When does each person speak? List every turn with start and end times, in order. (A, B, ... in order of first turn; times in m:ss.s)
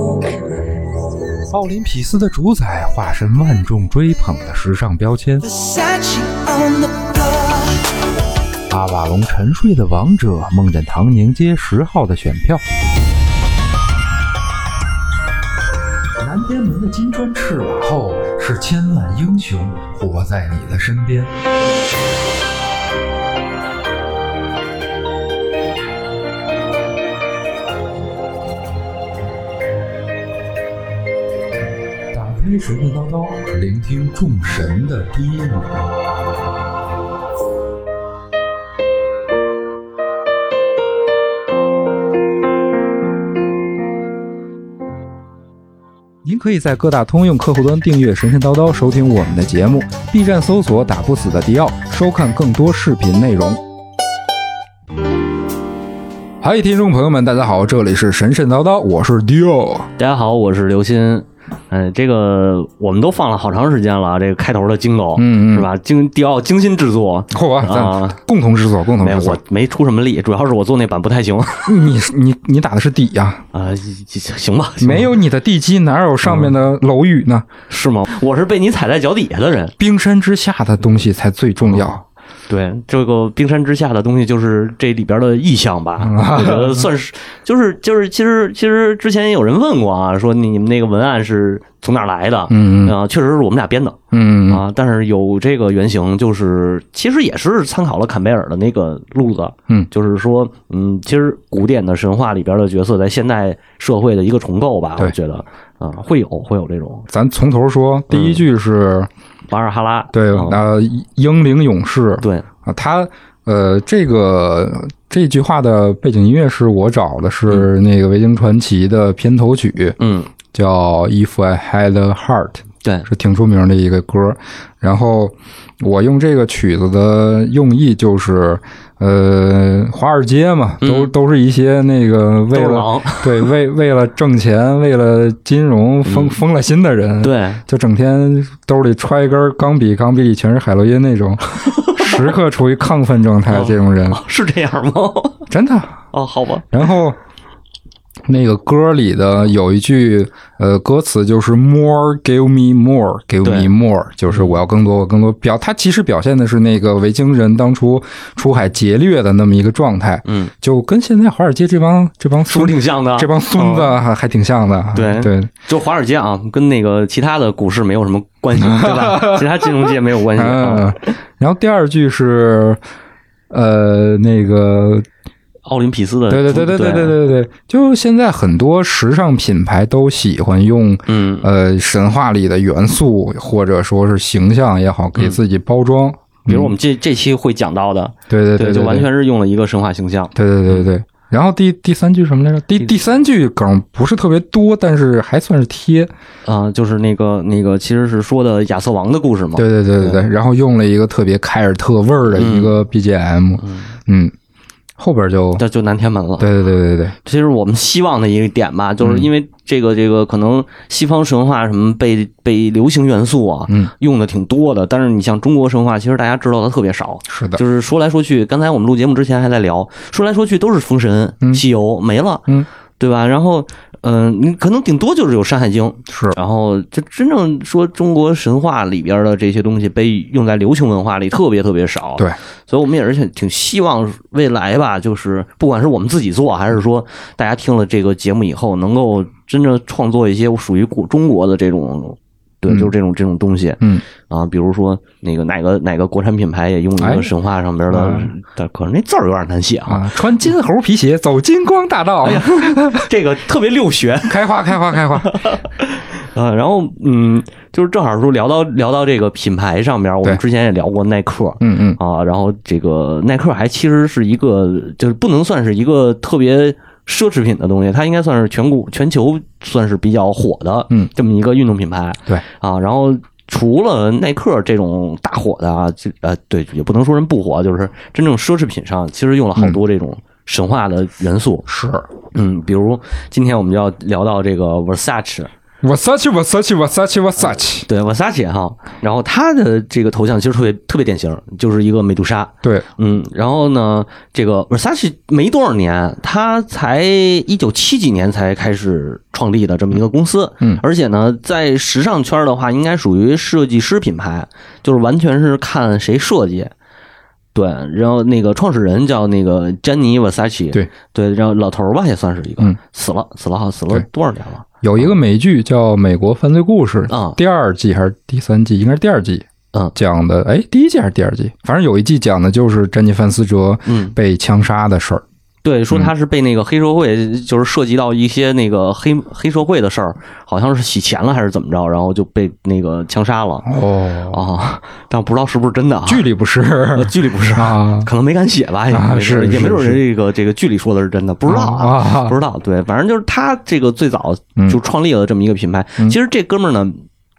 0:01.5-0:05.4 A
0:05.4-0:07.7 B
0:08.7-0:12.6 A
0:16.2-0:21.3 A
0:32.1-0:35.9 A
0:46.2-0:53.6 A
0:56.4-0:59.9 A
1:00.0-1:08.2 C
1:05.2-1:05.7 A
1:07.3-1:09.4 A
1:09.0-1:11.8 C
1:11.6-1:13.4 A
1:13.5-1:15.1 C
1:14.8-1:17.5 A
1:16.2-1:16.5 C
1:17.7-1:19.7 C
1:19.8-1:22.0 A
1:21.6-1:47.1 C
1:26.0-1:26.9 A
1:32.5-1:33.0 A
1:34.1-1:34.6 A
1:47.1-1:49.1 A
1:48.1-1:48.4 C
1:49.5-1:50.6 C
1:50.1-2:00.0 A
1:52.2-1:52.4 C
2:00.0-2:00.3 C
2:00.5-2:24.2 A
2:10.8-2:11.1 C
2:12.5-2:13.5 C
2:16.0-2:16.4 C
2:17.2-2:17.6 C
2:21.7-2:22.3 C
2:23.5-2:25.5 C
2:25.5-2:26.0 A
2:26.1-2:26.7 C
2:26.7-2:27.2 A
2:28.2-2:45.5 A
2:33.4-2:33.7 C
2:34.3-2:34.6 C
2:40.2-2:40.5 C
2:42.4-2:44.0 C
2:44.9-2:51.1 C
2:48.6-2:52.8 A
2:53.5-2:55.0 A
2:55.6-2:57.2 C
2:56.3-3:06.7 A
3:01.1-3:01.5 C
3:06.5-3:10.9 C
3:08.3-3:09.1 A
3:10.3-3:16.1 A
3:16.4-3:20.2 C
3:19.6-3:24.3 A
3:22.3-3:22.8 C
3:23.6-3:23.9 C
3:25.0-3:25.6 A
3:25.6-3:26.5 C
3:26.4-3:27.2 A
3:27.2-4:10.1 C
3:29.0-3:29.3 A
3:37.3-3:37.6 A
3:46.1-3:46.4 A
4:07.0-4:07.3 A
4:07.9-4:08.3 A
4:09.9-4:13.1 A
4:12.2-4:14.5 C
4:14.3-4:15.4 A
4:15.2-4:41.7 C
4:21.6-4:22.0 A
4:41.6-4:42.1 A
4:42.3-4:45.5 C
4:45.8-4:47.9 A
4:47.8-5:06.7 C
5:07.5-5:14.6 C
5:14.8-5:25.2 A
5:17.1-5:17.4 C
5:23.8-5:24.1 C
5:25.6-5:33.7 C
5:33.6-5:34.4 A
5:34.3-5:36.2 C
5:36.1-5:38.1 A
5:36.9-5:47.0 C
5:38.9-5:40.0 A
5:41.5-5:42.4 A